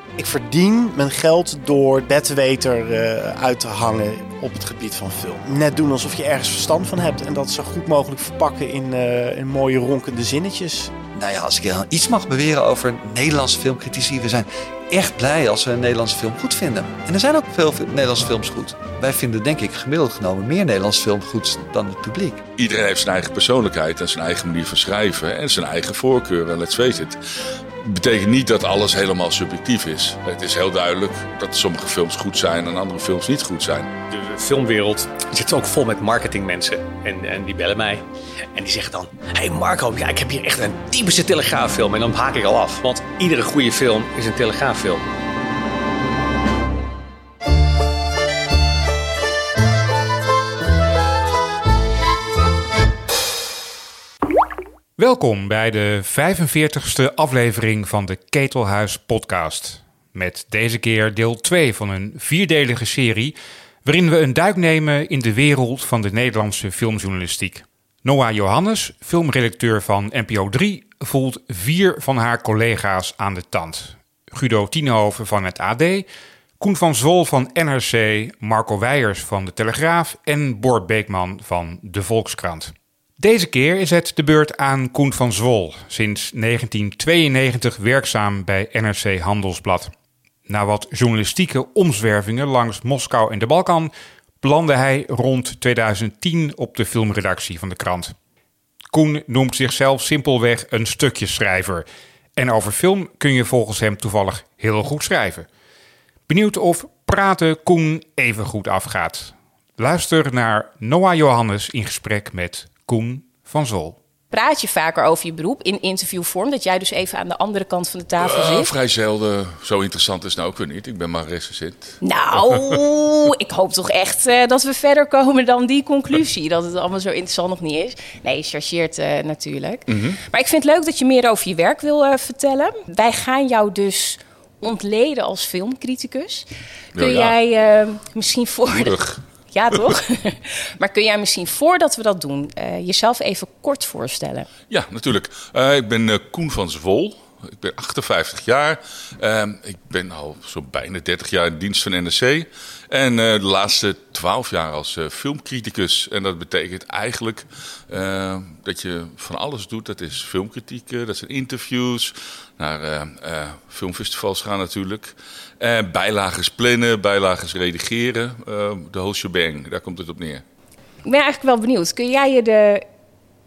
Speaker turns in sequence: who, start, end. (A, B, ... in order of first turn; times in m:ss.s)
0:00.2-0:10.9 A
0:11.1-0:22.4 B
0:22.6-0:27.2 C
0:27.8-0:33.9 C
0:34.1-0:34.4 D
0:40.9-0:43.0 D
0:43.7-0:44.2 D
0:44.7-0:45.0 D
0:55.0-1:16.1 E
1:16.6-1:29.9 E
1:30.5-1:38.2 E
1:38.9-1:41.9 E
1:42.4-1:45.5 E
1:46.3-1:54.0 E
1:54.3-1:58.7 F
1:58.2-2:02.8 C
2:02.0-2:19.0 F
2:09.9-2:10.2 C
2:16.9-2:17.4 C
2:18.7-2:19.2 C
2:19.5-2:24.5 F
2:24.7-2:50.4 C
2:51.0-2:52.8 F